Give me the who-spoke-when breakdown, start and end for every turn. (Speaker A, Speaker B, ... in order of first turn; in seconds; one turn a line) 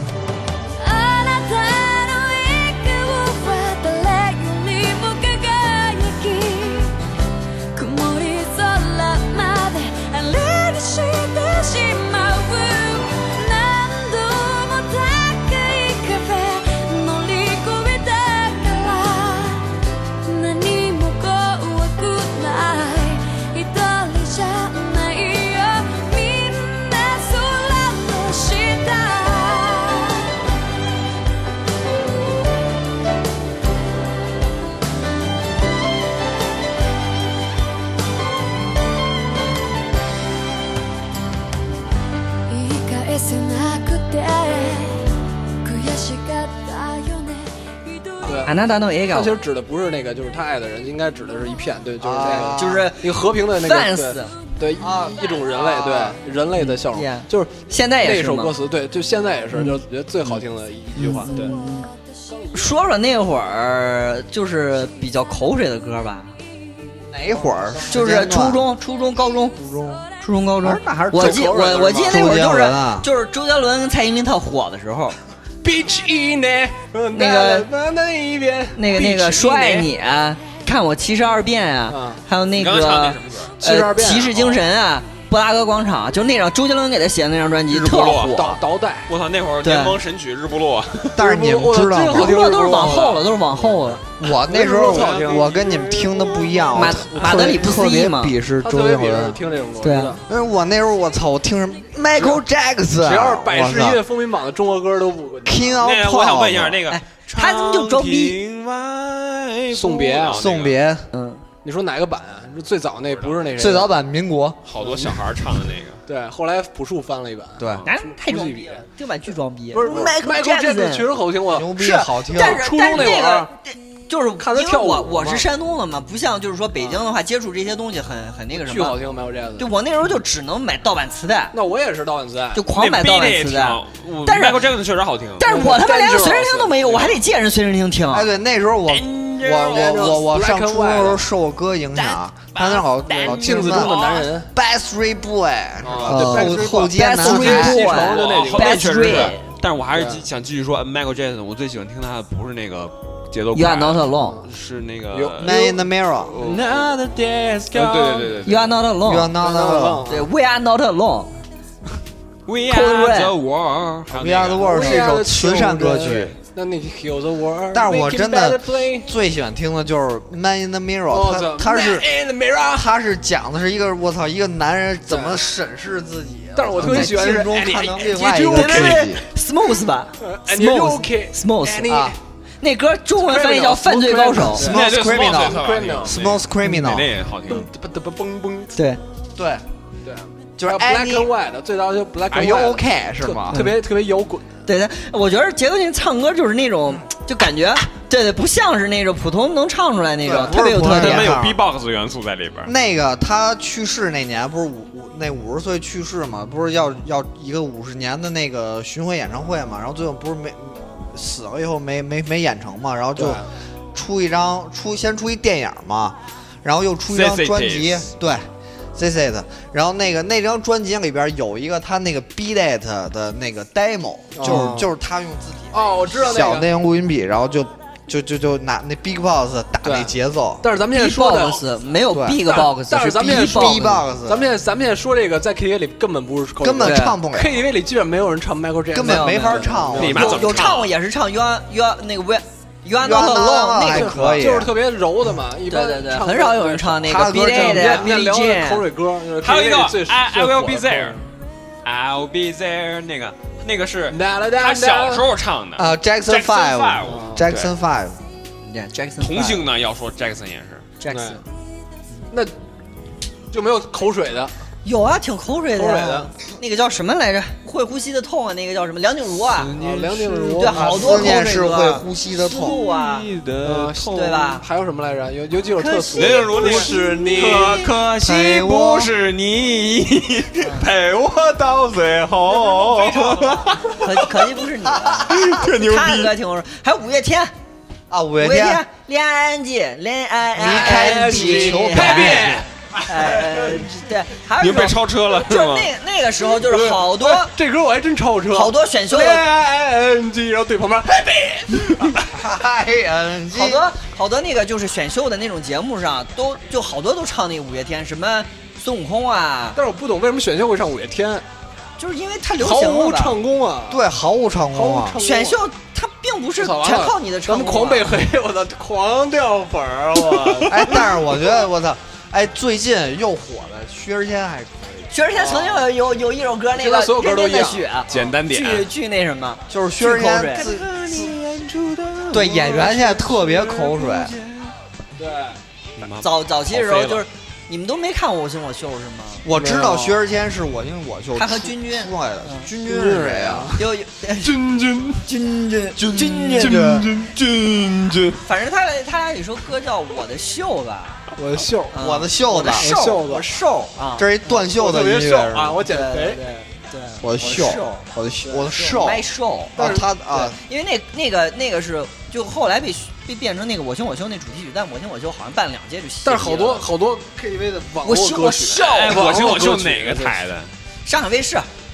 Speaker A: 0.8-7.0
Speaker A: 7.7-19.7
Speaker A: 20.2-30.3
Speaker A: 42.5-45.0
Speaker A: 45.6-48.3
Speaker B: 48.3-61.6
Speaker C: 48.4-49.3
Speaker D: 52.0-52.9
Speaker C: 52.2-54.3
Speaker D: 54.8-56.2
Speaker C: 56.6-58.5
Speaker C: 59.5-60.4
Speaker C: 61.0-61.9
Speaker C: 62.5-66.3
Speaker D: 67.1-68.7
Speaker C: 67.9-69.6
Speaker D: 69.5-70.1
Speaker C: 70.2-75.2
Speaker D: 70.6-73.1
Speaker B: 71.2-72.3
Speaker B: 75.6-79.9
Speaker C: 77.1-77.7
Speaker C: 78.8-88.6
Speaker B: 81.9-82.2
Speaker E: 82.5-83.5
Speaker B: 83.6-84.4
Speaker E: 87.7-88.4
Speaker B: 88.3-89.1
Speaker E: 89.1-91.2
Speaker C: 89.6-90.0
Speaker D: 91.2-92.9
Speaker B: 91.2-97.8
Speaker C: 92.1-94.0
Speaker D: 94.2-99.4
Speaker E: 94.8-95.5
Speaker C: 96.7-98.3
Speaker B: 98.6-100.2
Speaker C: 99.8-100.2
Speaker D: 100.3-104.0
Speaker B: 102.2-102.4
Speaker B: 103.0-105.8
Speaker D: 105.5-106.8
Speaker E: 105.8-110.8
Speaker C: 106.9-108.4
Speaker B: 109.7-110.5
Speaker D: 110.3-111.1
Speaker C: 111.1-111.4
Speaker B: 111.6-113.9
Speaker E: 113.0-113.4
Speaker D: 113.5-114.6
Speaker E: 114.7-116.0
Speaker B: 114.8-115.2
Speaker B: 116.1-118.9
Speaker D: 117.6-117.8
Speaker C: 117.9-121.1
Speaker B: 119.7-123.5
Speaker D: 121.5-123.2
Speaker C: 122.3-129.0
Speaker B: 124.4-125.5
Speaker B: 126.8-127.0
Speaker B: 128.5-129.7
Speaker C: 129.6-131.5
Speaker B: 131.5-132.6
Speaker C: 132.6-134.7
Speaker E: 132.7-135.5
Speaker C: 135.4-138.3
Speaker B: 135.4-137.2
Speaker D: 138.1-144.0
Speaker E: 138.9-140.1
Speaker B: 139.6-141.2
Speaker E: 142.0-144.3
Speaker B: 143.1-144.5
Speaker D: 144.5-148.0
Speaker B: 145.8-149.3
Speaker C: 146.1-149.4
Speaker E: 148.0-155.7
Speaker B: 149.9-150.2
Speaker C: 153.5-154.4
Speaker B: 154.2-154.5
Speaker B: 155.1-155.7
Speaker D: 155.4-156.4
Speaker E: 156.3-158.7
Speaker B: 157.8-158.1
Speaker C: 158.4-159.4
Speaker D: 159.0-160.1
Speaker B: 159.4-160.3
Speaker C: 160.1-161.3
Speaker E: 162.5-164.7
Speaker C: 162.7-163.3
Speaker D: 164.1-166.3
Speaker B: 164.6-169.1
Speaker D: 167.7-172.1
Speaker B: 171.1-172.9
Speaker D: 172.7-179.2
Speaker B: 175.1-175.4
Speaker B: 176.6-179.2
Speaker C: 176.8-177.2
Speaker C: 178.5-182.0
Speaker B: 180.2-182.2
Speaker D: 181.9-182.2
Speaker C: 182.6-184.7
Speaker B: 183.2-186.2
Speaker D: 184.5-187.1
Speaker E: 184.6-187.7
Speaker B: 187.5-188.8
Speaker D: 189.4-189.6
Speaker B: 190.0-194.5
Speaker D: 190.6-191.3
Speaker D: 192.3-193.7
Speaker C: 193.5-193.8
Speaker C: 194.7-201.3
Speaker D: 200.2-201.6
Speaker E: 200.9-202.7
Speaker D: 202.7-230.7
Speaker B: 213.2-213.5
Speaker E: 217.1-218.1
Speaker B: 224.3-224.9
Speaker B: 225.7-226.7
Speaker B: 229.8-231.7
Speaker C: 230.9-234.0
Speaker D: 232.1-232.6
Speaker B: 232.3-240.5
Speaker D: 233.1-234.5
Speaker D: 236.6-237.7
Speaker C: 236.8-237.2
Speaker D: 238.9-240.7
Speaker C: 239.0-244.4
Speaker E: 240.0-240.9
Speaker D: 243.0-244.7
Speaker B: 243.8-251.2
Speaker C: 245.7-248.8
Speaker D: 247.1-248.1
Speaker E: 249.4-251.2
Speaker E: 251.8-257.7
Speaker B: 254.1-255.2
Speaker D: 255.8-258.2
Speaker B: 257.1-257.5
Speaker C: 258.6-259.7
Speaker E: 259.2-260.9
Speaker C: 261.0-261.4
Speaker B: 261.1-261.4
Speaker B: 263.5-264.5
Speaker C: 264.9-269.7
Speaker B: 265.8-266.3
Speaker E: 269.6-270.7
Speaker B: 269.8-271.2
Speaker C: 270.6-273.3
Speaker D: 270.7-272.8
Speaker E: 272.7-274.2
Speaker B: 273.6-277.9
Speaker C: 274.1-274.6
Speaker C: 275.8-277.8
Speaker E: 276.1-284.1
Speaker D: 278.2-279.1
Speaker C: 282.9-287.5
Speaker D: 284.9-285.6
Speaker E: 285.3-286.3
Speaker D: 288.1-288.8
Speaker C: 288.4-297.5
Speaker D: 290.6-292.6
Speaker B: 290.6-292.7
Speaker B: 293.2-293.8
Speaker E: 294.6-295.9
Speaker B: 296.5-302.0
Speaker C: 298.5-299.4
Speaker D: 302.2-303.9
Speaker C: 303.5-309.8
Speaker B: 309.8-311.4
Speaker C: 312.0-313.4
Speaker B: 312.6-314.0
Speaker D: 313.9-315.2
Speaker B: 314.7-315.6
Speaker C: 315.2-318.1
Speaker B: 316.6-321.4
Speaker D: 320.7-325.1
Speaker C: 325.1-330.7
Speaker B: 325.3-325.9
Speaker B: 326.7-328.4
Speaker E: 328.1-328.9
Speaker D: 329.7-331.3
Speaker E: 330.6-334.6
Speaker D: 332.3-334.3
Speaker B: 335.2-335.6
Speaker E: 336.0-337.2
Speaker C: 336.2-339.4
Speaker D: 339.4-343.8
Speaker B: 339.5-340.2
Speaker C: 341.4-342.7
Speaker B: 342.8-343.8
Speaker C: 343.8-344.6
Speaker B: 344.4-345.2
Speaker C: 345.3-347.0
Speaker B: 346.6-347.3
Speaker D: 346.6-347.1
Speaker C: 348.4-351.2
Speaker B: 351.4-352.0
Speaker C: 351.9-354.6
Speaker D: 351.9-352.9
Speaker B: 352.5-353.5
Speaker D: 354.1-355.8
Speaker B: 354.5-356.5
Speaker C: 355.9-358.0
Speaker D: 357.2-360.6
Speaker B: 358.4-358.8
Speaker C: 358.7-359.8
Speaker B: 359.8-360.5
Speaker C: 360.6-366.9
Speaker B: 366.2-370.4
Speaker C: 368.0-369.3
Speaker E: 368.7-370.7
Speaker C: 371.1-371.7